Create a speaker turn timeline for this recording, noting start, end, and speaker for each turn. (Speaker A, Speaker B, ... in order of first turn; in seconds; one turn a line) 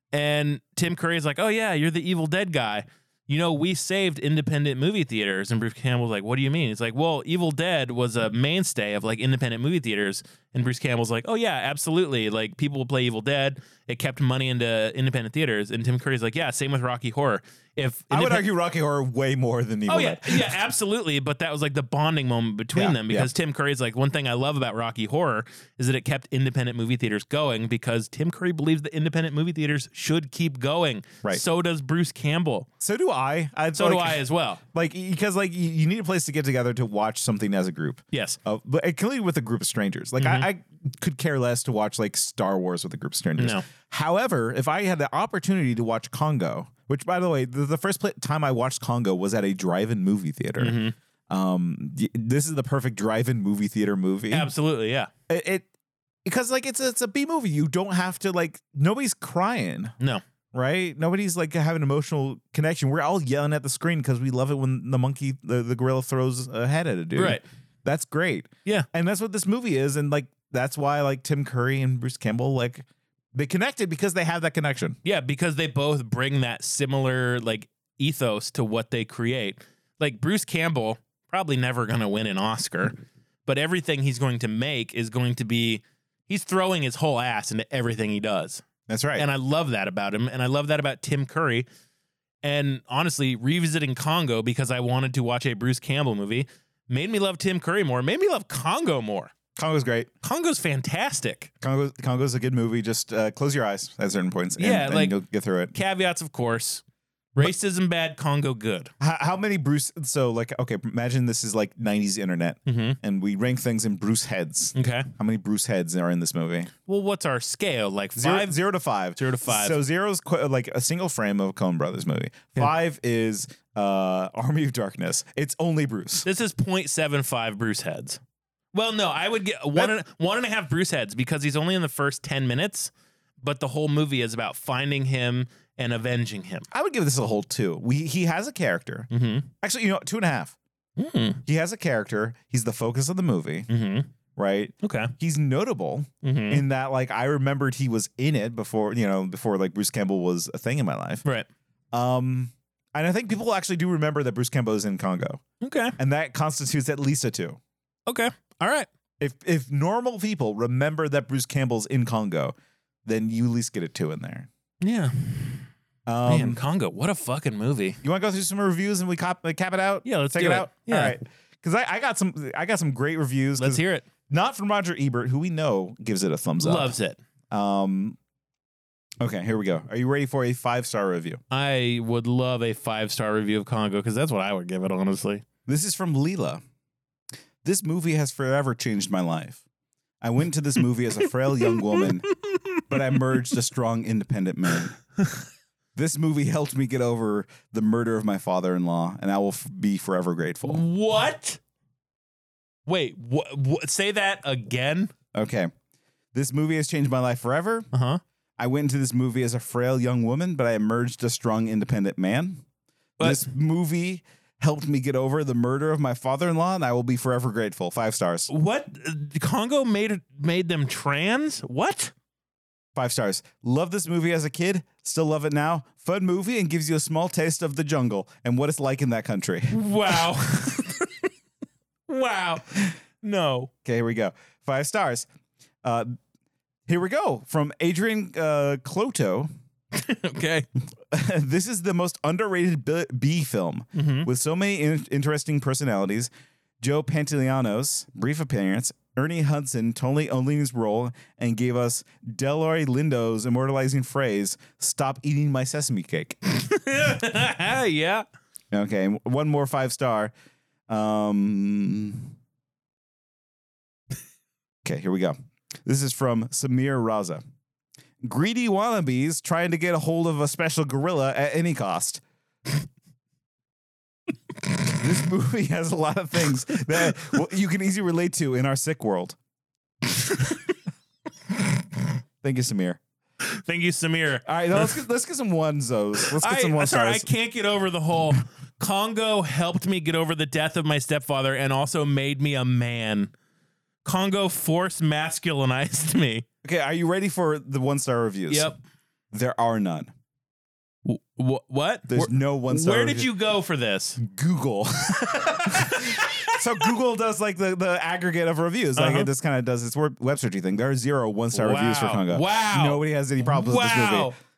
Speaker A: 0.1-18.5
Speaker B: 18.1-20.5
Speaker A: 19.9-32.7
Speaker B: 22.7-23.3
Speaker B: 32.8-34.2
Speaker A: 33.7-34.6
Speaker B: 34.7-50.8
Speaker A: 38.1-38.4
Speaker A: 40.2-40.5
Speaker A: 43.4-43.7
Speaker A: 50.6-50.9
Speaker B: 51.3-54.5
Speaker A: 54.3-55.1
Speaker B: 55.3-55.7
Speaker B: 56.2-59.9
Speaker B: 60.5-75.0
Speaker A: 67.2-67.4
Speaker A: 75.0-88.6
Speaker B: 88.9-89.3
Speaker A: 89.2-91.7
Speaker A: 92.4-99.3
Speaker B: 99.5-100.1
Speaker A: 100.2-101.5
Speaker B: 101.6-105.7
Speaker A: 104.6-105.1
Speaker A: 105.7-106.8
Speaker A: 107.3-108.9
Speaker B: 109.0-116.7
Speaker A: 112.7-113.0
Speaker A: 114.7-115.1
Speaker A: 116.8-118.5
Speaker B: 118.2-126.2
Speaker A: 119.2-119.8
Speaker A: 126.2-128.2
Speaker A: 128.7-136.7
Speaker B: 136.7-139.1
Speaker A: 139.1-139.5
Speaker B: 139.6-140.6
Speaker A: 141.0-141.4
Speaker B: 141.4-143.7
Speaker A: 143.7-144.1
Speaker B: 144.3-151.2
Speaker A: 144.8-145.1
Speaker A: 146.2-146.6
Speaker B: 151.9-155.4
Speaker A: 155.6-155.9
Speaker B: 156.0-157.6
Speaker A: 158.1-158.9
Speaker B: 159.2-164.5
Speaker A: 164.8-165.7
Speaker B: 166.1-166.6
Speaker A: 166.3-168.0
Speaker B: 168.0-176.9
Speaker A: 170.0-171.2
Speaker A: 173.6-174.1
Speaker A: 176.6-177.2
Speaker B: 177.5-178.2
Speaker B: 179.2-181.4
Speaker A: 181.5-185.4
Speaker B: 185.7-186.6
Speaker B: 187.6-189.6
Speaker B: 190.2-192.2
Speaker A: 191.6-192.8
Speaker B: 192.9-194.9
Speaker B: 195.9-200.8
Speaker A: 200.7-201.6
Speaker A: 202.9-205.1
Speaker B: 205.3-205.7
Speaker B: 206.3-207.9
Speaker A: 207.9-208.2
Speaker B: 208.6-212.6
Speaker A: 213.2-213.4
Speaker B: 213.2-218.5
Speaker A: 218.5-222.1
Speaker B: 222.9-229.8
Speaker A: 229.7-231.3
Speaker A: 232.1-232.6
Speaker A: 233.2-233.7
Speaker B: 233.8-235.3
Speaker B: 235.8-236.2
Speaker B: 236.9-239.5
Speaker A: 239.9-240.7
Speaker B: 241.1-256.4
Speaker A: 243.9-244.3
Speaker A: 256.6-258.2
Speaker B: 258.7-260.3
Speaker B: 260.9-262.3
Speaker B: 264.8-267.4
Speaker B: 268.2-272.2
Speaker B: 275.0-279.4
Speaker B: 282.4-283.0
Speaker A: 283.5-284.9
Speaker B: 284.4-287.3
Speaker A: 286.3-293.3
Speaker A: 294.0-296.4
Speaker B: 296.6-298.7
Speaker A: 298.5-298.8
Speaker B: 299.3-300.1
Speaker A: 301.0-304.2
Speaker B: 302.1-303.3
Speaker B: 304.2-314.3
Speaker A: 305.3-306.3
Speaker A: 309.0-309.3
Speaker A: 311.5-314.4